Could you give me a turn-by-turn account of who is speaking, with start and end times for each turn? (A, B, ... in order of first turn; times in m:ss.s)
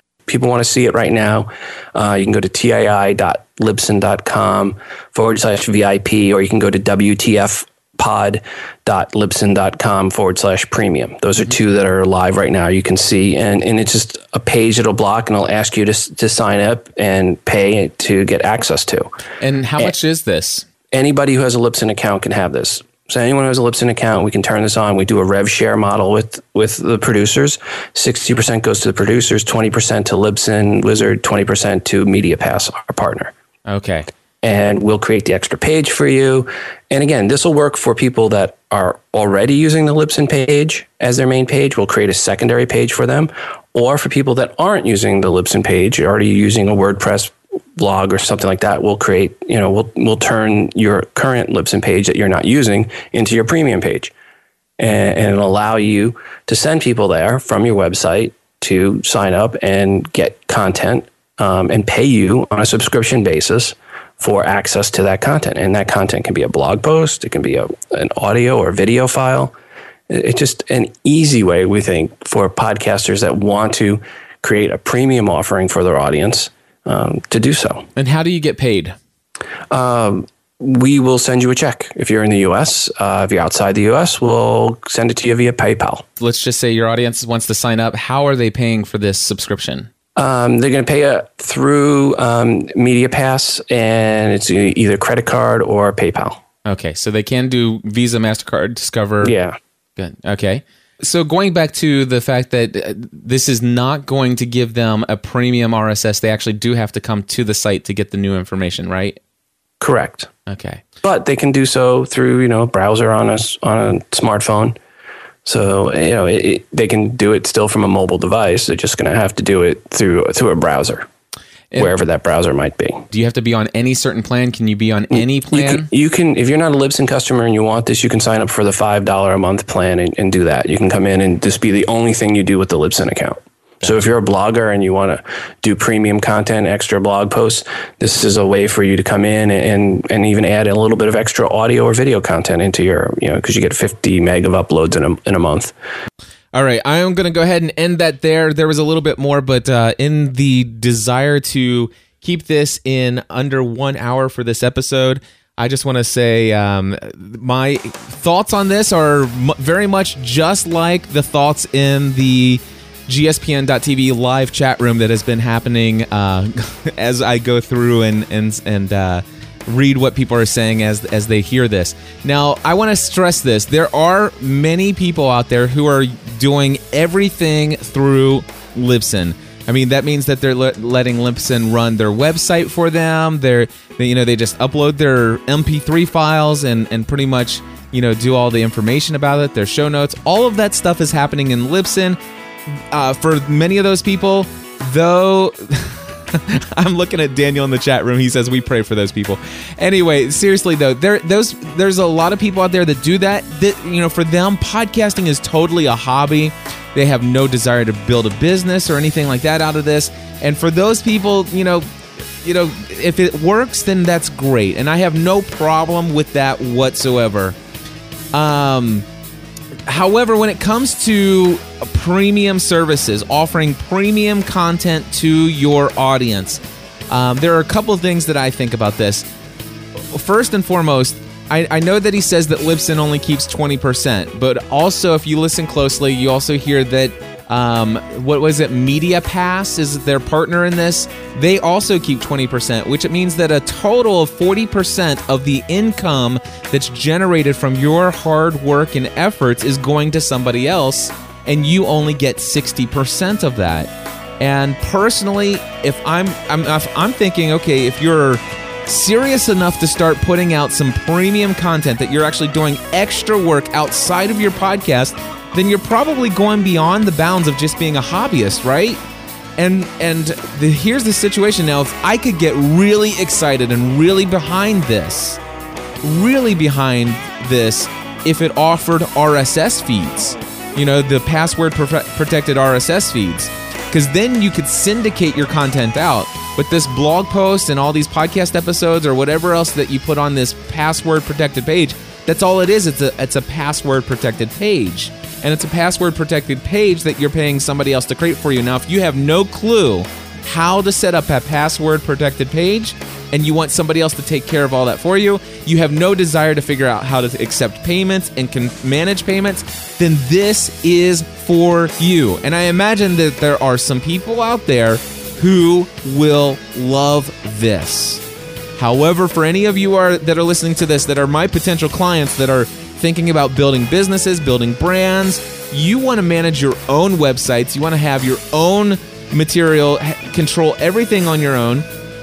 0:00.3-0:19.1 A
0:19.4-0:20.7 B
0:20.9-0:33.3 A
0:33.7-0:34.1 B
0:34.4-0:54.1 A
0:54.8-1:09.5 A
1:10.1-1:17.9 A
1:18.0-1:19.0 B
1:19.7-1:26.0 A
1:26.2-1:29.9 B
1:30.2-1:36.4 A
1:36.6-1:39.3 B
1:39.2-1:39.6 A
1:40.0-1:49.2 B
1:49.8-1:50.3 A
1:50.5-1:50.8 B
1:51.0-1:54.8 A
1:55.4-2:01.1 A
2:01.7-2:03.1 A
2:03.1-2:05.9 B
2:05.5-2:25.7 A
2:26.5-3:12.2 B
3:12.9-3:31.9 B
3:32.4-3:37.6 B
3:38.3-3:39.1 B
3:39.9-3:49.3 B
3:50.1-4:29.0 B
4:29.6-4:35.4 B
4:36.0-5:18.2 B
5:18.8-5:31.9 B